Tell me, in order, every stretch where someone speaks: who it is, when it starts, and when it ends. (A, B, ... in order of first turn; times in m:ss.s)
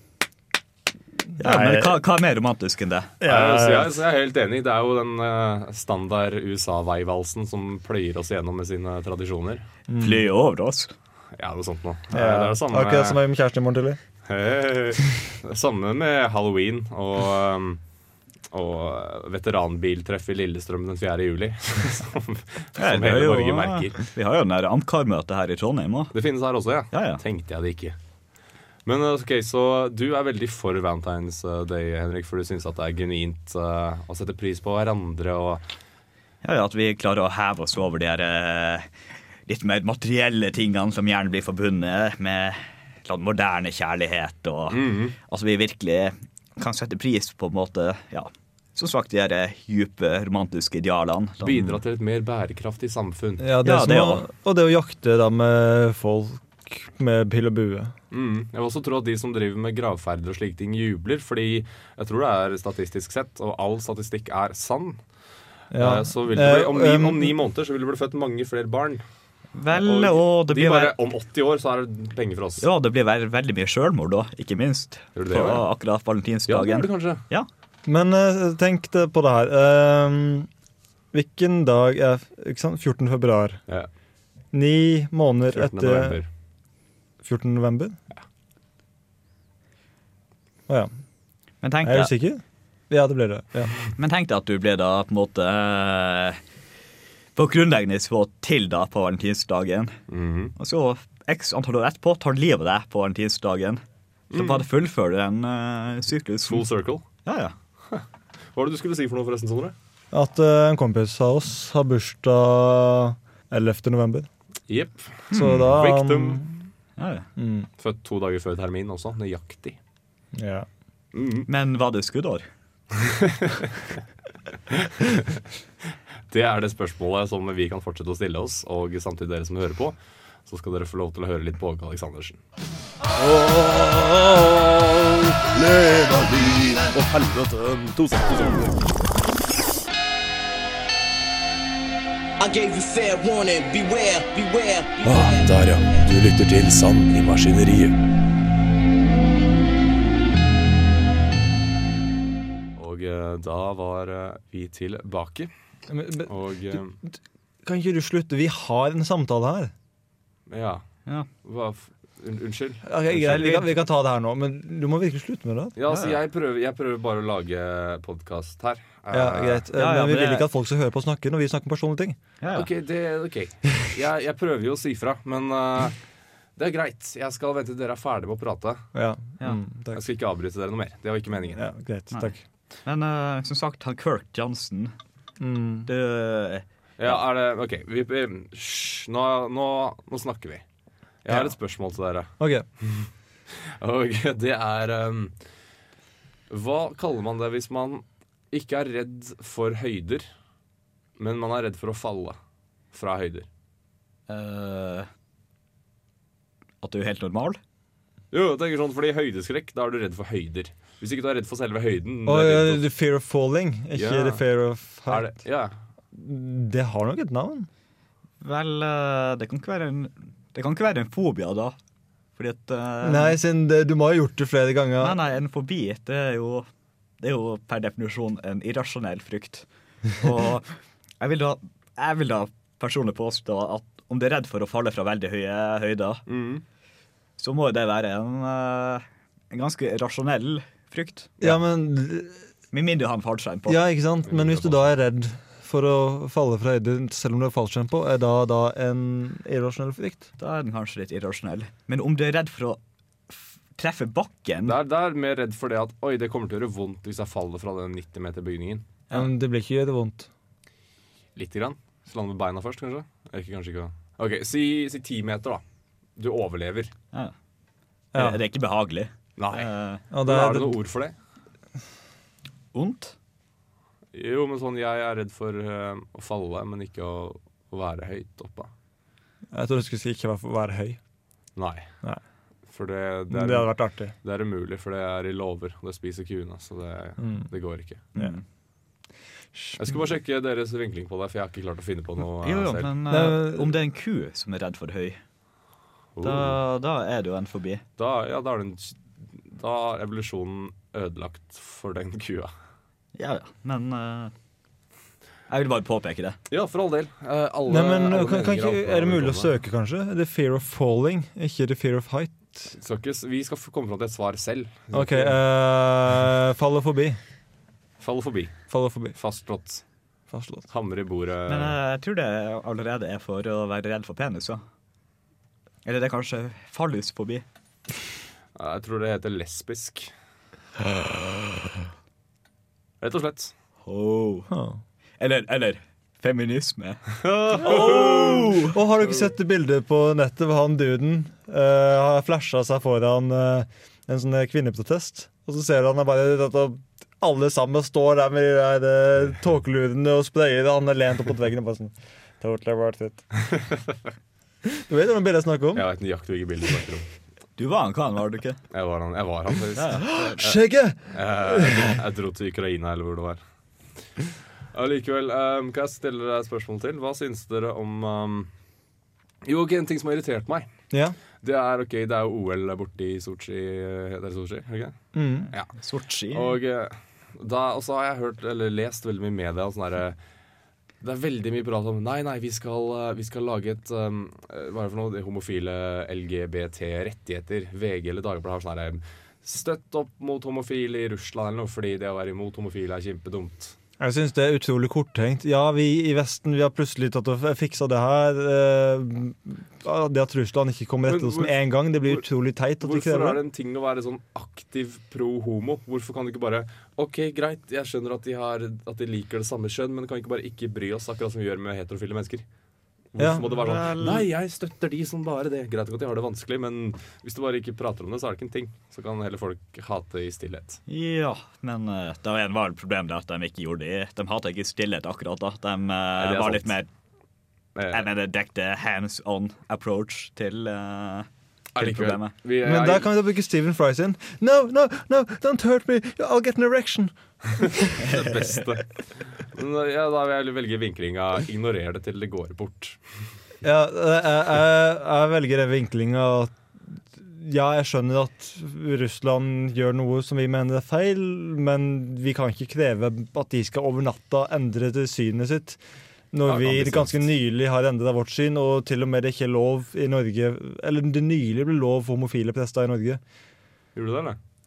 0:01.4-0:02.0 A
0:01.4-0:03.1 B
0:03.2-0:03.9 A
0:03.2-0:09.6 C
0:09.9-0:10.2 A
0:10.0-0:10.9 B
0:11.4-0:13.2 C
0:12.1-0:14.0 A
0:14.2-0:17.8 C
0:18.5-0:24.0 C
0:22.8-0:26.1 B
0:26.1-0:28.0 C
0:26.9-0:27.2 B
0:28.9-0:35.6 C
0:36.4-0:38.9 B
0:39.5-0:51.8 B
0:44.7-0:45.2 C
0:51.4-0:53.5 C
0:53.4-0:58.0 A
0:53.6-0:54.3 B
0:58.1-1:05.0 C
1:05.7-1:07.4 A
1:05.8-1:09.0 C
1:09.5-1:11.0 B
1:09.7-1:12.7 C
1:12.6-1:17.5 B
1:15.1-1:15.7 C
1:16.5-1:17.2 C
1:17.9-1:20.5 A
1:21.1-1:23.6 A
1:24.5-1:26.2 A
1:25.5-1:26.3 C
1:27.2-1:28.0 A
1:31.6-1:32.1 B
1:31.8-1:33.8 A
1:33.9-1:36.4 B
1:37.4-1:40.0 B
1:40.1-1:40.5 C
1:40.6-1:46.6 B
1:44.3-1:44.6 C
1:46.5-1:47.0 C
1:47.2-1:47.5 B
1:47.9-1:49.8 C
1:50.1-1:54.3 A
1:54.7-1:56.4 C
1:55.3-1:55.7 B
1:55.3-1:56.6 A
1:57.0-1:57.3 B
1:57.4-1:57.7 A
1:57.8-1:59.8 C
2:00.4-2:00.7 A
2:01.1-2:01.5 C
2:01.5-2:02.5 B
2:02.9-2:04.0 C
2:04.7-2:05.4 C
2:06.3-2:12.4 C
2:13.2-2:18.8 D
2:22.4-2:26.0 E
2:25.0-2:28.0 D
2:32.8-2:35.5 C
2:35.9-2:37.1 A
2:36.2-2:37.0 C
2:37.6-2:39.7 A
2:40.5-2:40.8 C
2:41.4-2:43.6 C
2:42.9-2:45.8 A
2:43.2-2:43.6 B
2:45.8-2:49.6 C
2:45.9-2:46.2 B
2:49.1-2:52.2 A
2:49.7-2:50.5 B
2:52.4-2:52.7 B
2:52.5-2:56.0 C
2:56.6-2:58.8 C
2:59.0-3:00.0 A
2:59.9-3:01.7 C
3:01.6-3:02.4 A
3:02.8-3:04.9 B
3:05.4-3:05.9 A
3:05.8-3:07.2 B
3:07.0-3:10.6 C
3:11.2-3:12.3 C
3:12.4-3:12.7 A
3:12.8-3:15.3 C
3:16.5-3:20.3 C
3:21.2-3:22.4 C
3:22.9-3:23.5 C
3:24.3-3:25.1 B
3:26.8-3:27.6 B
3:28.3-3:32.9 C
3:32.2-3:35.4 A
3:33.9-3:34.4 C
3:35.1-3:35.8 C
3:36.1-3:37.7 A
3:38.4-3:41.8 B
3:42.4-3:43.4 B
3:43.0-3:45.2 A
3:45.0-3:46.7 B
3:47.2-3:56.2 B
3:56.3-3:56.6 C
3:57.4-4:01.3 B
4:01.4-4:02.4 A
4:02.7-4:03.8 B
4:03.7-4:10.3 A
4:04.3-4:04.8 C
4:10.4-4:14.8 B
4:14.7-4:18.9 C
4:19.1-4:20.3 A
4:21.4-4:25.6 C
4:26.2-4:26.9 C
4:28.1-4:28.4 A
4:28.1-4:30.0 B
4:29.4-4:31.2 C
4:30.1-4:30.8 A
4:32.7-4:33.2 B
4:34.1-4:38.7 C
4:39.5-4:41.0 A
4:41.6-4:41.9 C
4:42.7-4:48.0 C
4:43.3-4:44.1 A
4:47.2-4:47.5 A
4:48.2-4:48.4 B
4:49.8-4:52.9 C
4:52.3-4:55.2 B
4:53.1-4:53.8 A
4:56.2-4:56.6 C
4:56.2-4:57.8 B
4:58.0-5:02.5 C
5:03.2-5:04.3 B
5:05.5-5:06.4 B
5:06.5-5:09.5 C
5:07.7-5:12.7 A
5:12.7-5:15.4 C
5:14.9-5:17.2 A
5:18.0-5:18.5 C
5:18.7-5:19.2 A
5:19.2-5:19.8 C
5:20.3-5:20.7 A
5:20.7-5:21.8 C
5:21.5-5:24.6 B
5:25.8-5:27.4 B
5:28.6-5:30.1 C
5:33.0-5:33.5 C
5:33.8-5:34.5 B
5:34.5-5:34.8 A
5:35.2-5:38.8 B
5:37.2-5:38.5 C
5:37.6-5:53.3 A
5:53.5-5:54.0 C
5:54.8-5:55.8 A
5:55.7-5:57.0 C
5:57.6-5:58.6 B
5:58.7-6:00.6 C
5:59.8-6:00.4 B
6:00.0-6:02.0 A
6:01.1-6:03.4 C
6:04.7-6:08.5 C
6:09.4-6:10.7 C
6:10.9-6:11.2 A
6:11.4-6:15.0 C
6:15.1-6:15.5 A
6:15.8-6:16.6 B
6:16.3-6:20.2 C
6:21.0-6:33.8 C
6:34.0-6:43.4 A
6:41.0-6:42.2 C
6:42.8-6:52.4 C
6:53.1-7:00.8 C
6:53.2-6:53.4 A
6:53.5-6:54.3 B
7:00.9-7:06.9 B
7:06.2-7:06.8 C
7:07.8-7:08.1 C
7:07.9-7:12.3 B
7:11.8-7:13.1 C
7:12.6-7:18.1 A
7:17.6-7:23.0 C
7:23.6-7:26.6 A
7:27.1-7:35.8 A
7:36.3-7:43.2 A
7:36.4-7:37.3 C
7:44.0-7:44.4 C